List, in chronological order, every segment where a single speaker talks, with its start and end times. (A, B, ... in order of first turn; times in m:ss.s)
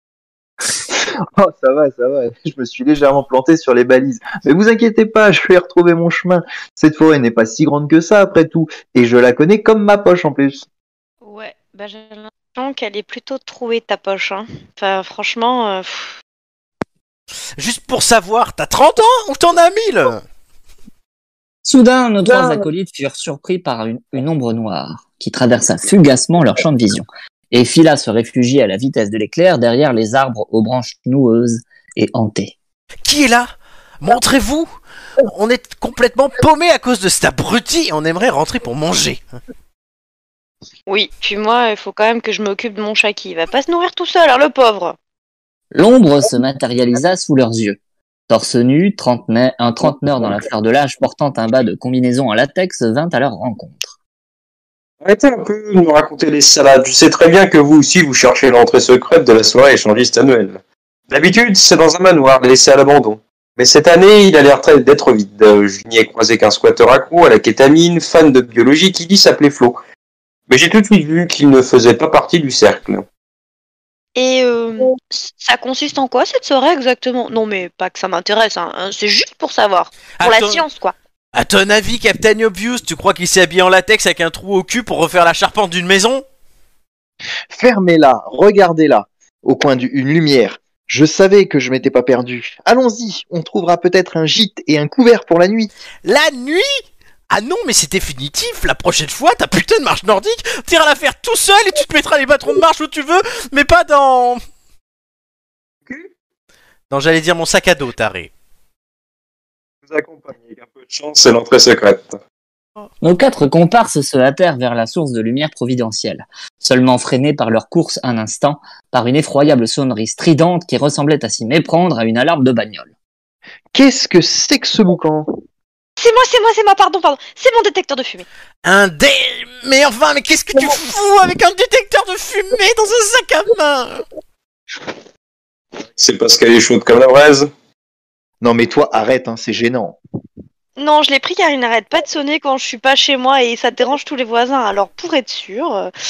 0:00.9-0:10.6 A
0:11.2-0:16.1 B
0:17.6-0:20.2 C
0:21.6-0:32.5 D
0:33.0-0:39.4 C
0:40.9-0:45.0 B
0:45.7-0:53.9 D
0:55.0-1:09.8 E
1:10.5-1:13.0 E
1:14.2-1:20.9 B
1:20.2-1:20.6 C
1:21.3-1:26.2 C
1:27.5-1:35.7 A
1:36.0-1:44.4 C
1:46.9-1:48.3 C
1:49.8-1:52.2 E
1:53.0-2:02.9 D
2:03.7-2:05.3 A
2:06.0-2:08.2 B
2:08.6-2:14.0 C
2:15.9-2:17.5 E
2:18.4-2:20.0 A
2:20.8-2:25.9 B